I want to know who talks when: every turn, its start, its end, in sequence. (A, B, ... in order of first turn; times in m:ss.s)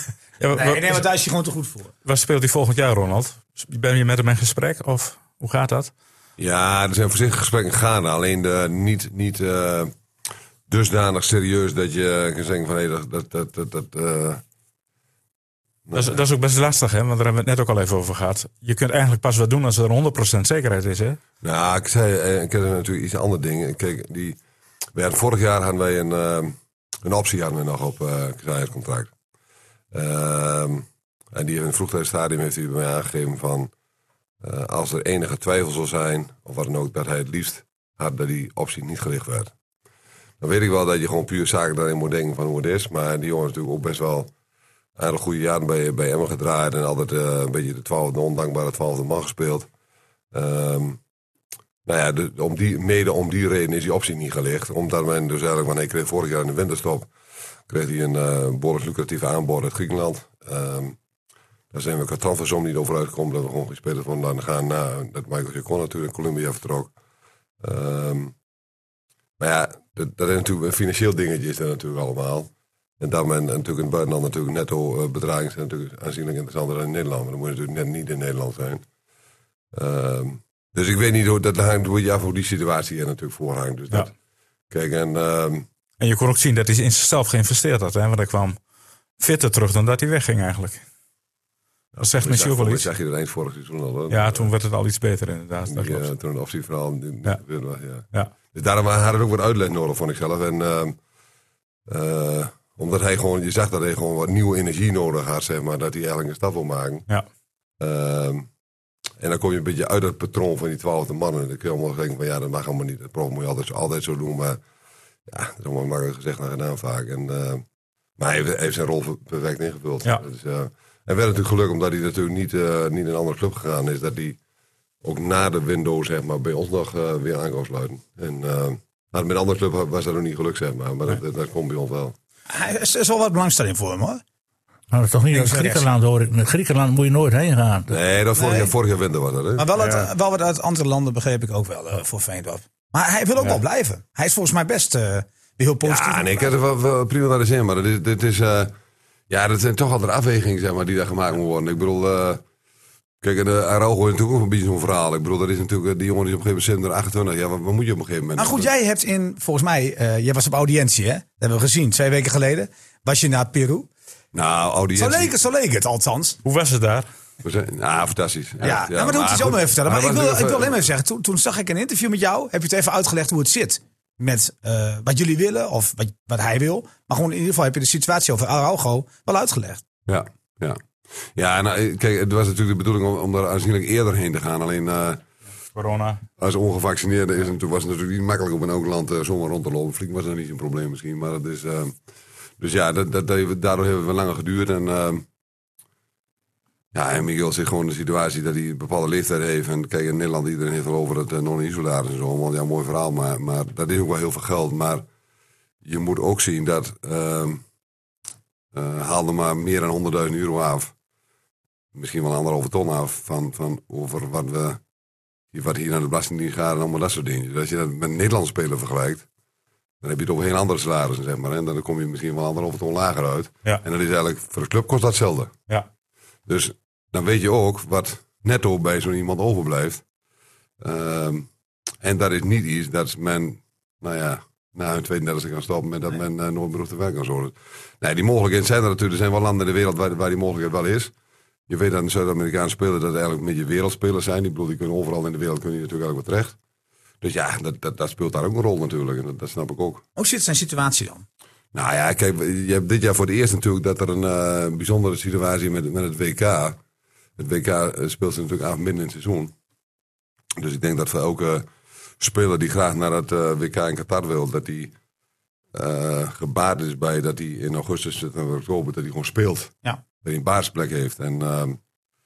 0:00.4-0:01.0 A
0:00.5-0:01.9 B
0:02.0-0:05.9 A
0:06.4-0:09.9 C
0:10.7-0:14.4 C
0:15.9-0:16.2 C
0:15.9-0:21.2 A
0:21.4-0:24.4 C
0:24.9-0:29.1 C
0:29.9-0:33.7 C
0:34.4-0:39.5 C
0:40.4-0:44.3 C
0:45.0-0:49.7 C
0:50.3-0:51.0 C
0:51.9-0:57.1 C
0:57.7-1:01.0 C
1:01.7-1:06.9 C
1:07.6-1:08.3 C
1:09.4-1:18.8 C
1:19.7-1:24.1 C
1:24.7-1:25.6 C
1:26.0-1:28.6 A
1:29.2-1:30.8 A
1:32.0-1:34.5 C
1:32.0-1:32.9 A
1:34.1-1:36.1 A
1:35.7-1:41.0 C
1:41.9-1:47.1 C
1:47.8-1:48.4 C
1:49.2-1:54.6 C
1:55.3-1:57.6 C
1:58.2-2:04.4 C
2:05.0-2:12.1 C
2:12.5-2:14.2 B
2:14.9-2:17.9 D
2:15.3-2:15.9 B
2:17.9-2:19.7 C
2:18.4-2:18.7 B
2:19.6-2:26.5 B
2:25.8-2:28.7 C
2:29.3-2:32.4 C
2:33.2-2:38.7 C
2:38.4-2:43.9 B
2:44.3-2:45.3 C
2:44.9-2:46.4 B
2:46.4-2:47.0 A
2:47.4-2:50.8 C
2:48.6-2:59.8 B
3:00.1-3:00.8 C
3:01.4-3:05.2 C
3:05.7-3:06.2 A
3:06.4-3:11.9 C
3:12.6-3:15.2 C
3:16.9-3:25.0 C
3:25.8-3:27.6 C
3:28.7-3:30.9 C
3:31.9-3:34.8 C
3:35.5-3:39.2 C
3:40.0-3:45.5 C
3:46.5-3:50.0 C
3:50.8-3:51.5 C
3:52.0-4:01.1 C
4:01.7-4:06.5 C
4:07.2-4:10.0 C
4:10.2-4:11.2 B
4:11.7-4:16.8 C
4:17.4-4:19.5 C
4:20.6-4:21.7 C
4:22.2-4:24.9 C
4:25.7-4:31.8 C